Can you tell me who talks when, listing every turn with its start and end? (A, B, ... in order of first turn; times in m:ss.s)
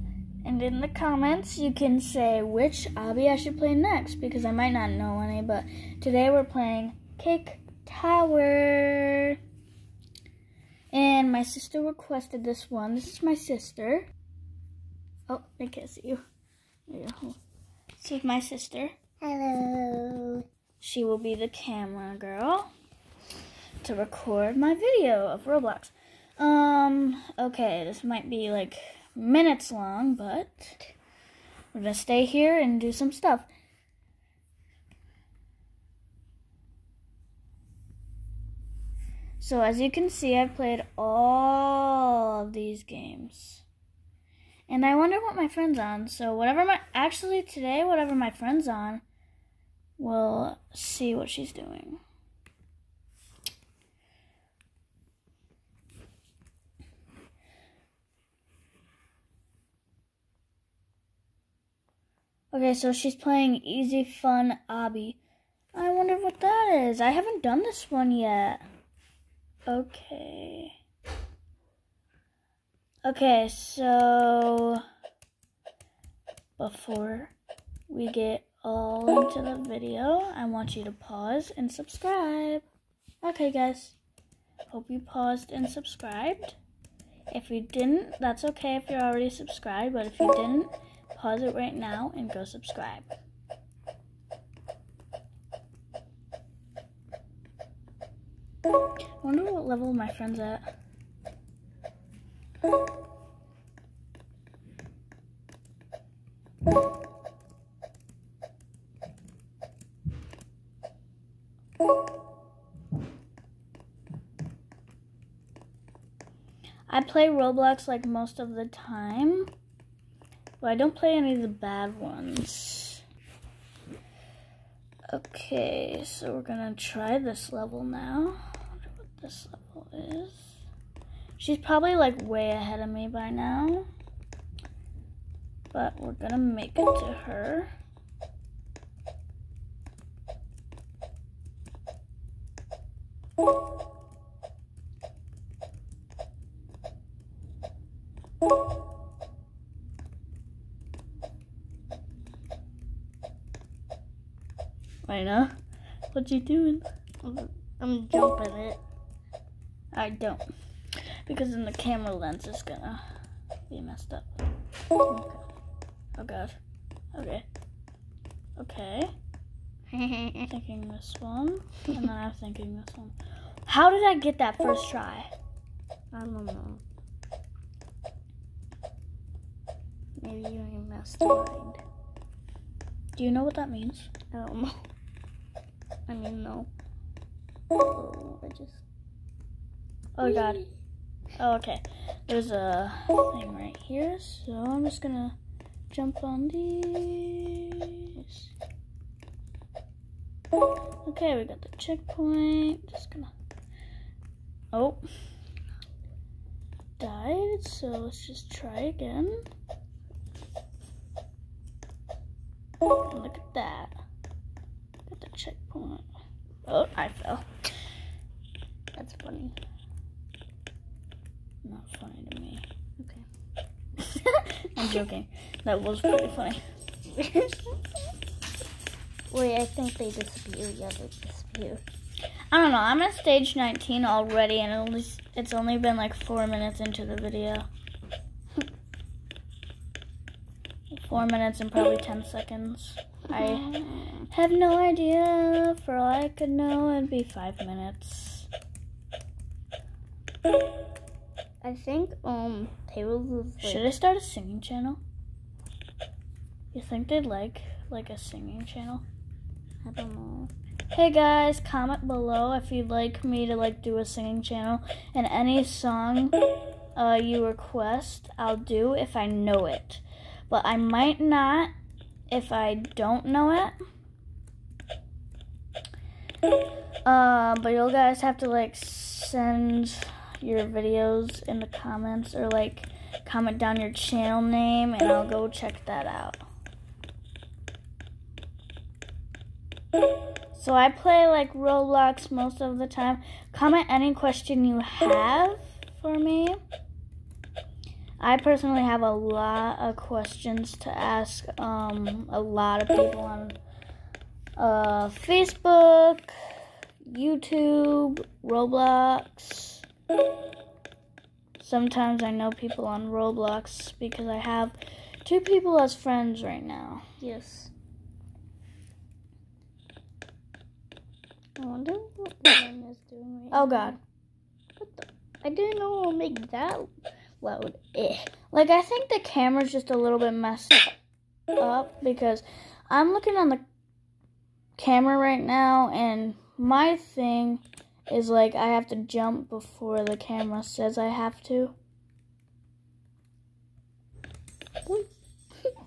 0:00.4-0:09.4 A
0:10.9-0:14.1 A
0:15.3-0:16.2 A
0:16.9-0:17.3 A
0:18.0-0:18.9 A
0:19.2-0:20.4 B
0:20.8-0:22.7 A
0:23.8-0:30.9 A
0:31.7-0:33.5 A
0:39.4-0:43.6 A
0:44.7-0:49.0 A
0:50.0-0:52.0 A
1:02.5-1:05.2 A
1:05.7-1:08.6 A
1:09.7-1:10.8 A
1:13.0-1:14.8 A
1:16.6-1:17.3 A
1:17.9-1:22.6 A
1:23.2-1:24.0 A
1:24.7-1:26.6 A
1:27.3-1:33.1 A
1:39.2-1:40.7 A
1:56.9-1:59.5 A
2:00.6-2:03.0 A
2:05.1-2:10.6 A
2:11.4-2:13.9 A
2:15.7-2:17.7 A
2:35.1-2:35.6 A
2:36.1-2:36.9 A
2:37.2-2:38.8 B
2:39.9-2:43.0 A
2:43.7-2:44.5 A
2:45.1-2:45.4 B
2:46.2-2:46.6 A
2:47.1-2:47.4 A
2:48.6-2:49.1 A
2:49.9-2:50.5 B
2:50.5-2:55.3 A
2:56.1-2:56.8 B
3:00.2-3:01.8 B
3:03.2-3:04.1 A
3:04.3-3:04.8 B
3:06.1-3:06.7 B
3:07.7-3:08.8 B
3:10.2-3:10.6 A
3:10.2-3:10.7 B
3:11.4-3:15.4 A
3:15.9-3:18.5 A
3:21.0-3:23.3 A
3:24.7-3:25.0 A
3:27.0-3:29.4 A
3:33.1-3:34.0 A
3:35.1-3:36.0 A
3:36.7-3:37.5 A
3:39.0-3:39.6 B
3:41.6-3:42.6 A
3:43.0-3:43.2 B
3:44.0-3:46.6 A
3:47.1-3:47.7 B
3:49.3-3:51.8 B
3:52.5-3:57.7 A
4:00.9-4:03.7 A
4:03.3-4:04.1 B
4:04.3-4:08.5 A
4:11.6-4:13.9 B
4:13.6-4:15.0 A
4:16.7-4:19.0 A
4:19.8-4:20.5 B
4:20.9-4:26.4 A
4:27.0-4:31.7 A
4:32.3-4:33.8 A
4:37.1-4:46.4 A
4:50.5-4:56.6 A
4:58.2-5:03.6 A
5:04.6-5:06.3 A
5:07.1-5:09.9 A
5:11.6-5:17.0 A
5:17.2-5:17.7 B
5:21.6-5:24.0 B
5:23.5-5:24.0 A
5:24.8-5:28.3 B
5:28.5-5:31.0 A
5:31.6-5:33.6 A
5:34.8-5:41.8 A